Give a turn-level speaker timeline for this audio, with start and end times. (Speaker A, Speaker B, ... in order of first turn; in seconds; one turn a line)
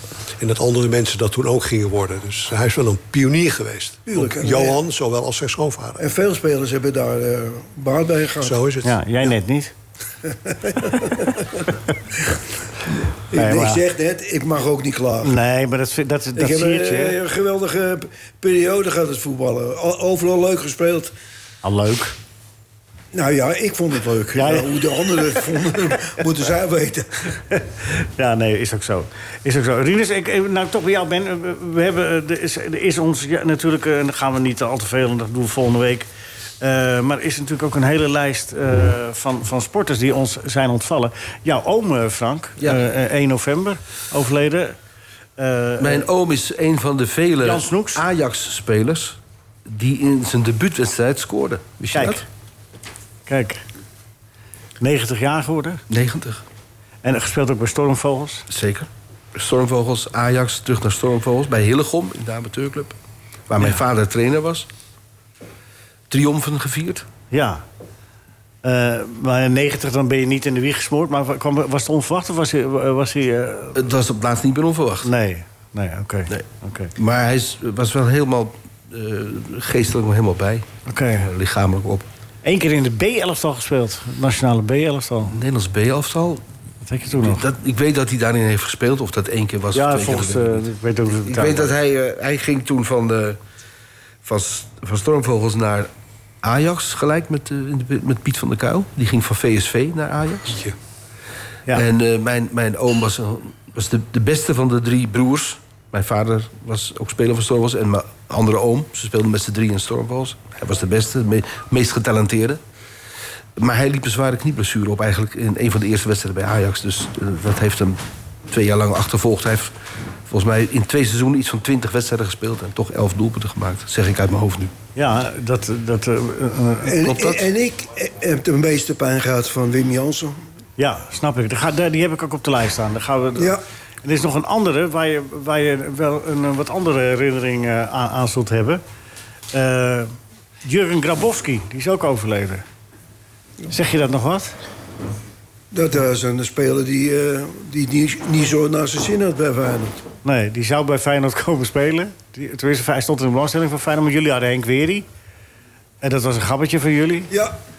Speaker A: 0.4-6.0
Speaker B: 4.1-4.8
Speaker B: 6.0-8.6
Speaker A: 8.4-9.3
Speaker C: 8.8-9.7
Speaker B: 10.2-11.7
Speaker B: 13.3-15.4
Speaker C: 13.3-13.8
Speaker C: 15.2-17.2
Speaker B: 16.4-21.1
Speaker C: 21.6-22.1
Speaker B: 23.1-27.3
Speaker C: 24.3-25.4
Speaker C: 27.5-36.1
Speaker C: 36.6-44.8
Speaker C: 45.4-46.1
Speaker D: 45.8-52.2
Speaker C: 47.4-48.0
Speaker C: 51.9-52.2
Speaker C: 53.3-53.6
Speaker C: 54.8-55.8
Speaker D: 55.9-56.4
Speaker C: 57.0-58.5
Speaker D: 58.5-63.0
Speaker D: 63.5-64.7
Speaker D: 66.1-67.0
Speaker C: 67.3-67.6
Speaker C: 68.6-73.8
Speaker D: 73.8-75.1
Speaker C: 75.0-76.9
Speaker D: 77.0-82.1
Speaker C: 80.9-81.3
Speaker C: 82.4-85.4
Speaker D: 85.3-86.4
Speaker C: 86.9-87.5
Speaker D: 87.2-90.6
Speaker C: 89.7-91.7
Speaker D: 91.3-93.4
Speaker D: 94.2-95.9
Speaker D: 96.4-100.6
Speaker A: 100.5-100.8
Speaker D: 101.7-112.6
Speaker D: 113.6-119.7
Speaker D: 120.3-124.7
Speaker C: 125.0-127.0
Speaker B: 126.8-130.4
Speaker D: 127.0-127.5
Speaker C: 130.8-138.8
Speaker B: 133.4-133.6
Speaker C: 139.5-140.1
Speaker C: 140.6-142.7
Speaker C: 143.7-144.6
Speaker B: 145.7-150.0
Speaker C: 150.2-155.1
Speaker C: 156.0-157.3
Speaker B: 157.3-157.6